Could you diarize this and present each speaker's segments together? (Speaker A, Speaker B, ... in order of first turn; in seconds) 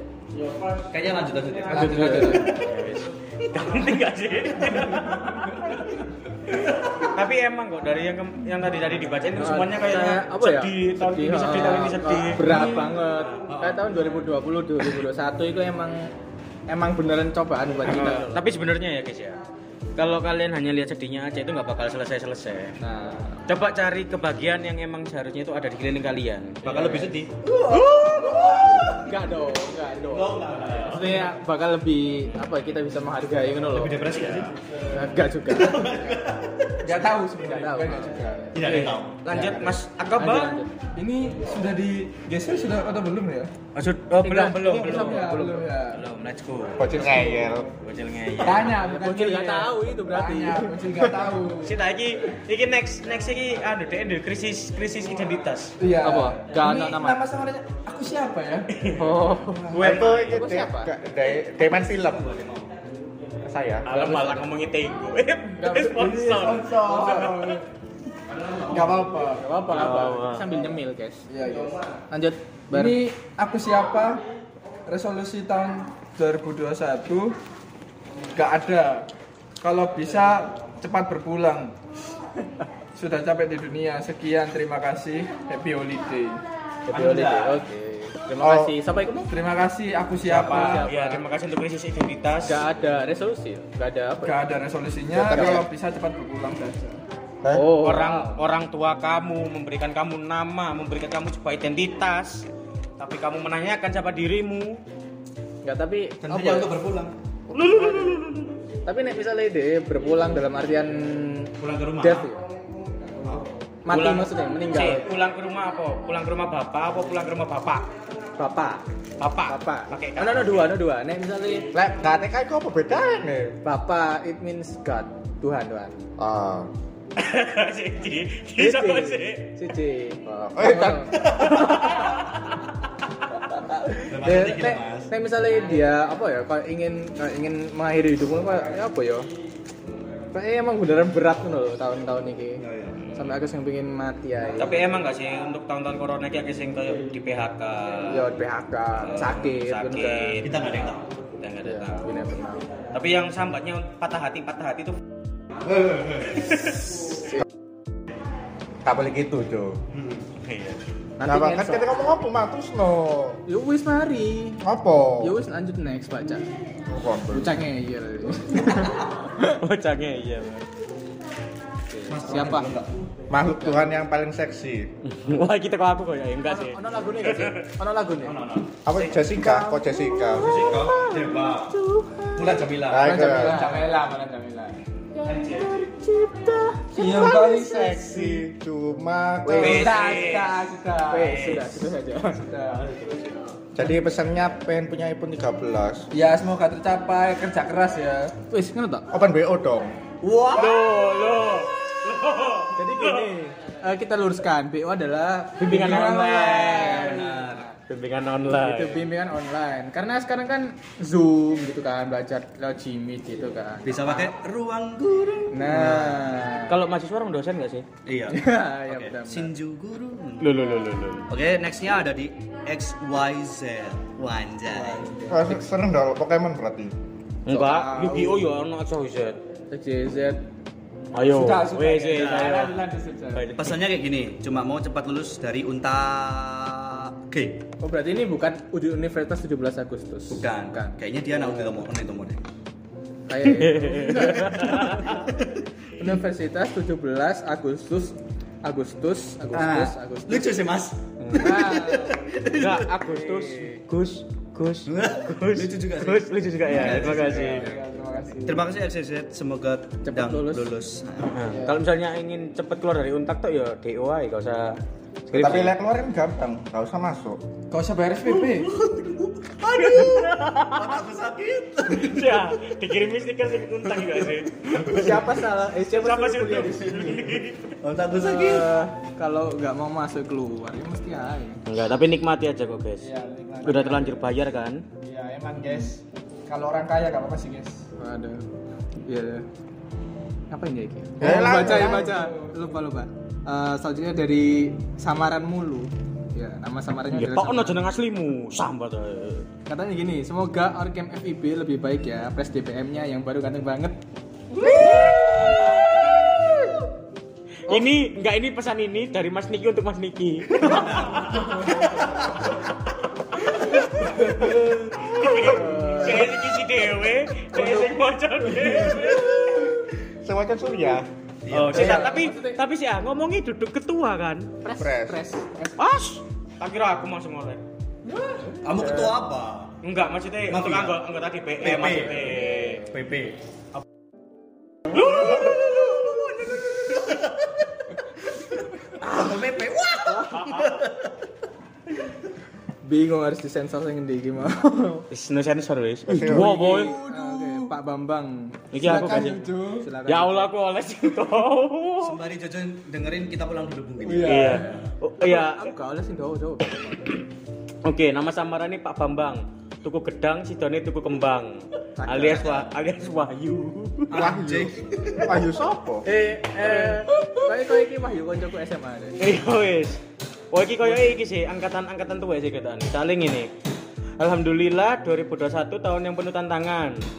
Speaker A: 0.9-2.7, 12.4-12.9, 13.5-13.8, 26.6-29.3, 30.1-31.3, 33.7-34.5, 35.4-37.1, 38.5-39.5, 62.1-62.7, 86.9-87.3, 106.2-107.1, 111.6-112.3, 131.1-131.7, 133.9-135.1, 142.6-143.0, 150.4-151.0, 155.7-156.7, 172.1-173.0, 178.2-178.7, 180.3-181.8, 182.3-183.2, 185.2-185.9, 200.2-200.9, 206.2-207.7, 213.8-216.4, 218.0-220.7, 221.3-225.1, 232.1-232.8, 233.6-237.6, 240.3-242.4, 244.7-245.5, 249.5-252.9, 254.8-257.7, 258.4-261.4, 268.2-272.8, 274.0-275.5, 277.8-278.8, 310.6-312.3, 321.4-322.2, 328.6-329.8, 330.5-331.0, 331.6-333.8, 334.9-337.5, 338.9-341.1, 352.0-354.9, 364.1-365.5
Speaker B: 1.7-2.5, 9.3-16.1, 16.7-18.4, 22.8-23.4, 27.7-34.0, 34.9-36.2, 36.9-39.6, 40.2-40.7, 44.2-45.5, 48.8-51.2, 56.0-57.2, 59.0-60.9, 63.9-64.5, 65.6-66.2, 69.4-71.3, 72.1-73.0, 86.9-89.3, 90.2-91.2, 92.4-94.3, 97.5-98.4, 105.6-106.7, 107.6-108.3, 108.8-112.4, 113.8-115.1, 118.3-118.8, 119.5-121.7, 123.6-125.9, 128.6-132.2, 133.8-139.3, 140.3-142.6, 143.1-144.8, 148.1-150.4, 151.6-152.6, 161.2-161.9, 163.5-164.6, 165.2-166.5, 167.3-169.6, 171.9-172.7, 173.6-173.9, 176.4-178.4, 179.2-184.0, 185.2-188.0, 189.4-189.9, 191.1-192.4, 198.5-199.1, 202.7-207.8, 208.5-214.3, 215.5-216.8, 218.3-219.5, 227.5-227.9, 229.7-230.4, 237.8-241.7, 243.3-245.3, 246.0-250.6, 251.2-252.3, 253.0-253.8, 256.7-257.8, 260.0-260.7, 261.4-261.8, 274.7-277.3, 278.1-281.6, 288.0-288.4, 289.1-289.4, 290.5-297.8, 299.7-304.0, 304.6-306.8, 315.3-316.4, 317.5-318.0, 321.7-322.6, 324.6-325.8, 328.6-329.1, 332.2-332.9, 340.0-340.5, 342.8-345.1, 346.5-350.5, 355.2-357.2, 362.0-362.7, 366.0-369.2
Speaker C: 1.7-5.9, 6.5-13.4, 17.9-19.4, 19.9-22.8, 23.4-27.1, 38.6-40.6, 43.7-47.1, 47.8-48.8, 51.6-55.7, 58.7-59.1, 59.7-60.4, 63.8-67.6, 69.7-70.5, 90.2-92.6, 97.8-102.5, 103.0-104.8, 107.5-108.5, 113.9-117.9, 119.2-120.7, 127.2-129.6, 131.6-132.5, 143.0-143.3, 144.6-148.3, 149.0-150.5, 151.4-152.3, 152.9-155.0, 156.5-156.8, 160.4-160.8, 169.6-170.6, 175.0-177.6, 189.6-190.5, 191.3-191.6, 200.5-203.3, 205.6-207.2, 207.9-209.1, 216.7-217.8, 220.4-221.3, 227.4-229.4, 231.1-232.8, 233.3-233.8, 243.5-245.2, 252.5-257.6, 261.3-265.8, 269.7-271.0, 271.9-274.8, 275.7-277.7, 281.6-283.1, 283.6-284.8, 297.1-299.5, 307.7-311.7, 313.6-319.4, 321.5-324.5, 325.8-327.6, 329.8-332.8, 334.9-335.6, 345.1-346.9, 348.7-349.5, 350.1-352.1, 354.2-355.6, 357.8-364.1, 366.6-366.9, 369.2-373.5, 374.2-377.0
Speaker D: 1.7-2.2, 46.8-47.7, 59.8-62.3, 63.4-63.9, 88.4-88.8, 95.1-95.7, 97.4-97.7, 121.7-123.6, 126.2-126.7, 130.2-131.3, 158.8-159.8, 161.2-163.4, 164.6-165.4, 166.9-167.6, 173.3-174.9, 178.8-180.8, 182.9-183.7, 187.4-190.0, 193.7-196.1, 199.1-200.0, 225.3-226.9, 265.3-267.4, 291.2-292.1, 320.2-321.1, 324.8-325.2, 346.1-346.7, 364.1-366.1
Speaker E: 1.9-2.3, 36.8-38.6, 39.3-39.8, 41.0-43.5, 44.6-46.0, 47.0-47.6, 48.4-51.8, 55.8-58.9, 59.5-59.9, 65.7-67.6, 68.6-70.0, 71.3-71.7, 72.7-74.2, 74.8-77.4, 78.3-79.1, 79.6-81.7, 82.9-86.4, 87.1-87.5, 89.3-90.9, 94.2-97.0, 183.2-184.8, 186.9-188.4, 189.6-191.5, 192.4-193.3, 196.1-198.3, 205.7-206.9, 224.8-225.4, 227.6-228.4, 231.2-233.5, 256.8-258.6, 267.7-268.7, 283.0-284.2, 285.0-287.9, 291.2-292.6, 346.2-347.7, 348.8-349.9, 354.0-354.8